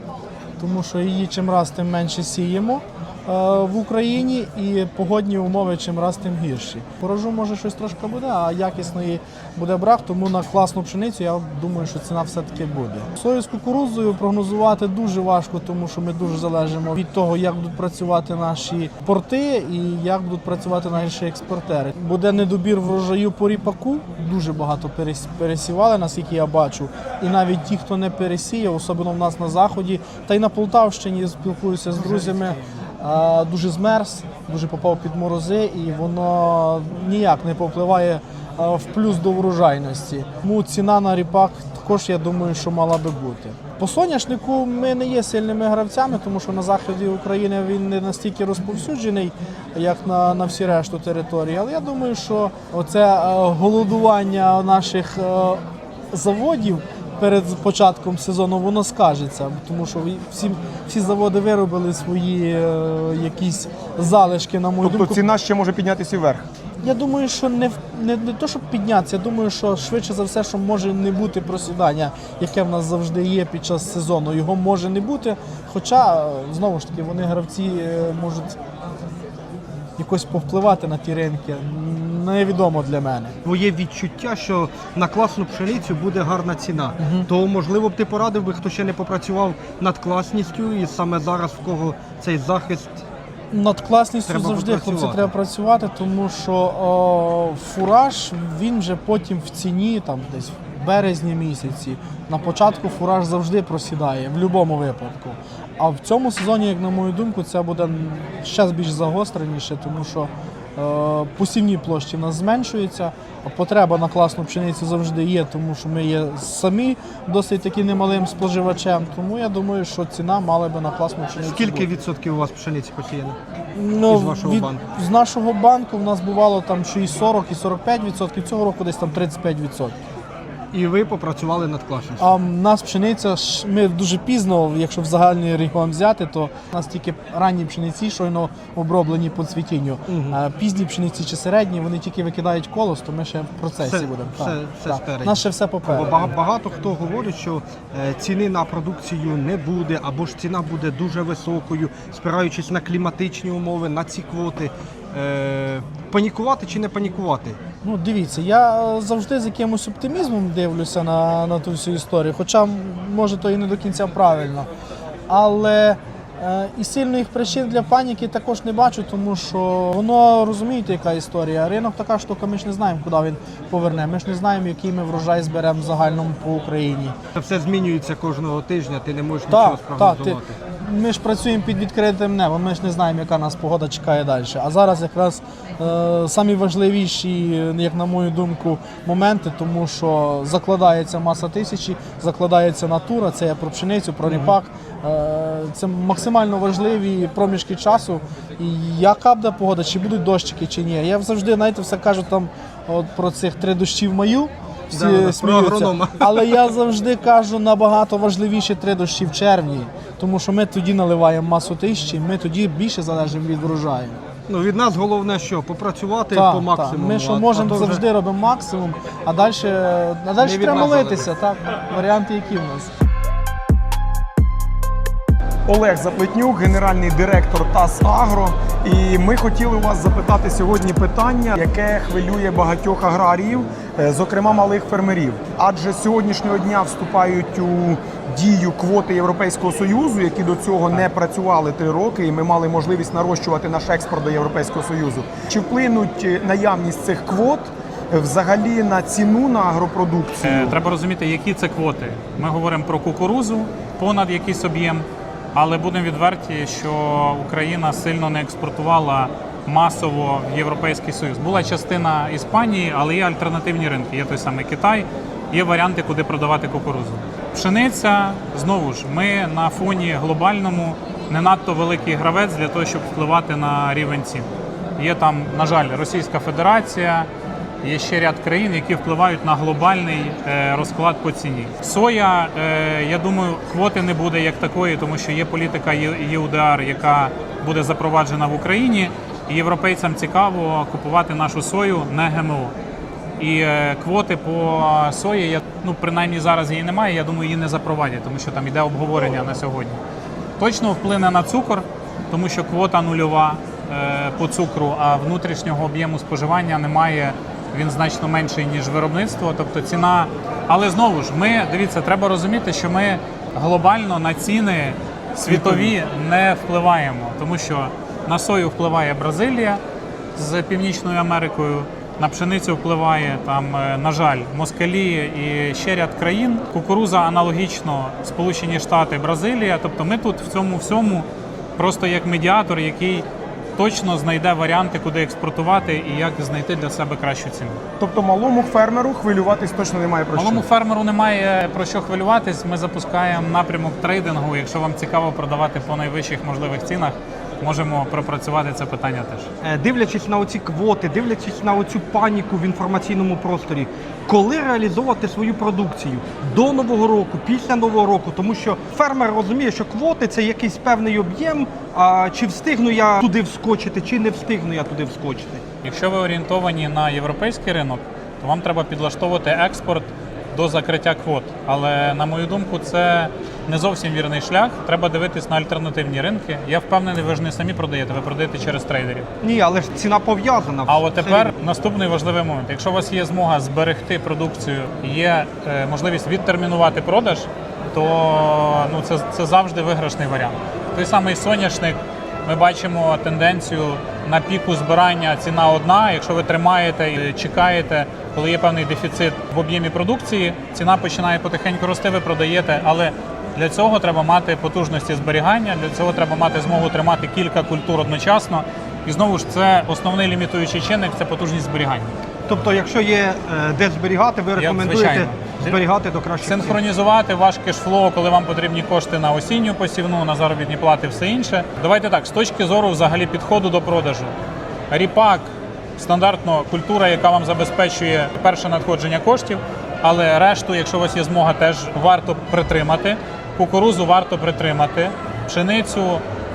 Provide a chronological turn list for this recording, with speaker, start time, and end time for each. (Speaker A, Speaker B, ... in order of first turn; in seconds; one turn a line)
Speaker A: 0.6-65.2
Speaker B: 64.8-66.5
Speaker A: 66.8-78.6
Speaker A: 80.0-83.3
Speaker C: 83.4-93.0
Speaker A: 87.0-87.3
Speaker A: 93.5-121.9
Speaker C: 94.3-95.3
Speaker C: 121.4-123.4
Speaker A: 123.7-130.0
Speaker C: 124.0-124.8
Speaker C: 130.7-132.3
Speaker A: 132.2-146.3
Speaker C: 140.1-140.4
Speaker C: 143.8-157.6
Speaker A: 157.8-164.7
Speaker A: 165.3-177.2
Speaker C: 177.3-180.6
Speaker A: 179.5-214.2
Speaker C: 204.9-206.6
Speaker C: 214.5-218.0
Speaker A: 216.3-222.9
Speaker C: 220.4-221.3
Speaker B: 225.7-250.8
Speaker D: 250.4-277.3
Speaker D: 277.8-292.7
Speaker D: 293.4-300.0
Speaker D: 300.6-319.8
Speaker D: 320.4-337.8
Speaker B: 338.0-340.6
Speaker D: 340.3-349.5
Speaker C: 349.6-365.6
Speaker D: 365.8-379.3
Speaker C: 379.4-381.5
Speaker D: 380.9-412.1
Speaker C: 412.5-416.8
Speaker D: 414.6-415.8
Speaker D: 416.4-424.4
Speaker D: 424.9-436.2